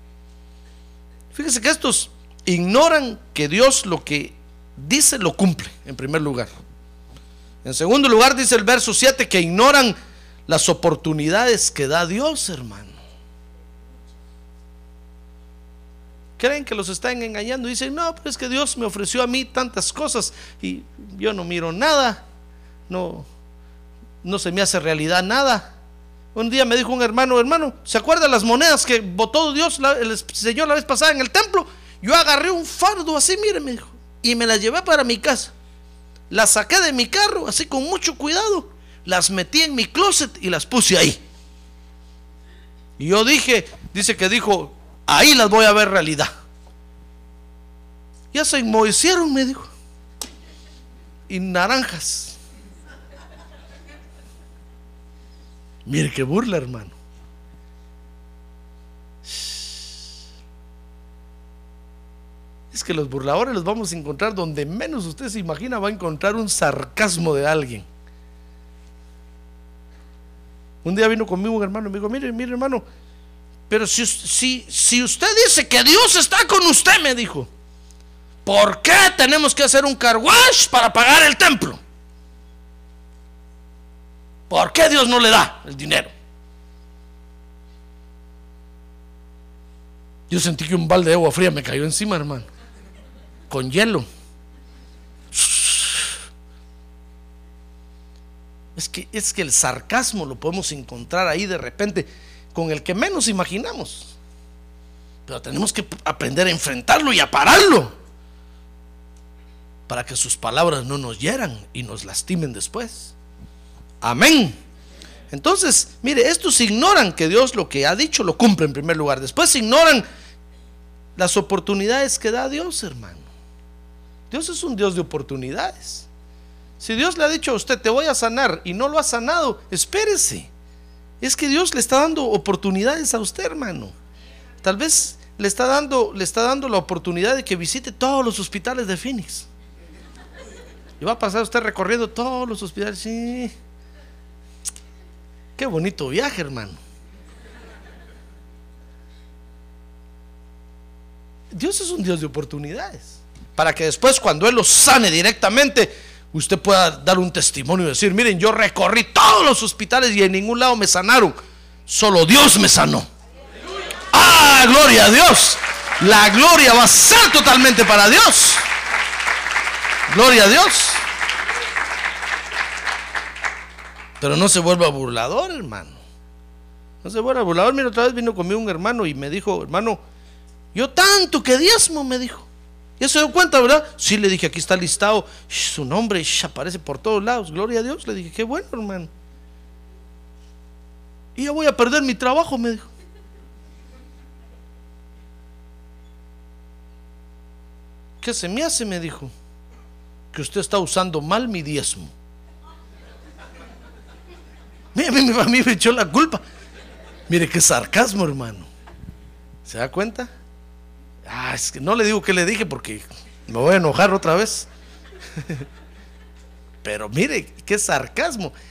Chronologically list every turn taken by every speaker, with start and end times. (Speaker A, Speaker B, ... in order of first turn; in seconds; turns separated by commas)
Speaker A: 1.3-6.5, Speaker A: 7.6-9.9, Speaker A: 10.5-13.0, Speaker A: 16.4-22.2, Speaker A: 22.9-23.3, Speaker A: 24.2-25.7, Speaker A: 26.3-35.5, Speaker A: 36.3-41.2, Speaker A: 43.0-46.3, Speaker A: 48.3-49.7, Speaker A: 51.3-52.4, Speaker A: 55.8-57.0, Speaker A: 59.2-60.0, Speaker A: 62.7-67.9, Speaker A: 70.8-72.8, Speaker A: 73.7-77.5, Speaker A: 78.4-81.8, Speaker A: 84.5-86.1, Speaker A: 90.3-92.5, Speaker A: 93.5-94.1, Speaker A: 95.3-96.1, Speaker A: 98.8-104.1, Speaker A: 105.2-108.0, Speaker A: 109.9-113.1, Speaker A: 114.0-114.6, Speaker A: 115.3-120.0, Speaker A: 121.2-123.3, Speaker A: 124.3-126.1, Speaker A: 126.8-130.5, Speaker A: 131.2-133.9, Speaker A: 134.6-139.5, Speaker A: 141.0-143.5, Speaker A: 145.6-146.8, Speaker A: 151.5-161.3, Speaker A: 161.9-163.1, Speaker A: 164.1-168.6, Speaker A: 170.1-171.0, Speaker A: 174.2-176.0, Speaker A: 177.0-180.0, Speaker A: 180.7-182.5, Speaker A: 183.0-189.1, Speaker A: 191.3-192.9, Speaker A: 198.2-199.3, Speaker A: 200.3-202.1, Speaker A: 204.9-206.4, Speaker A: 207.3-208.7, Speaker A: 209.7-210.3, Speaker A: 211.2-214.7, Speaker A: 216.8-218.5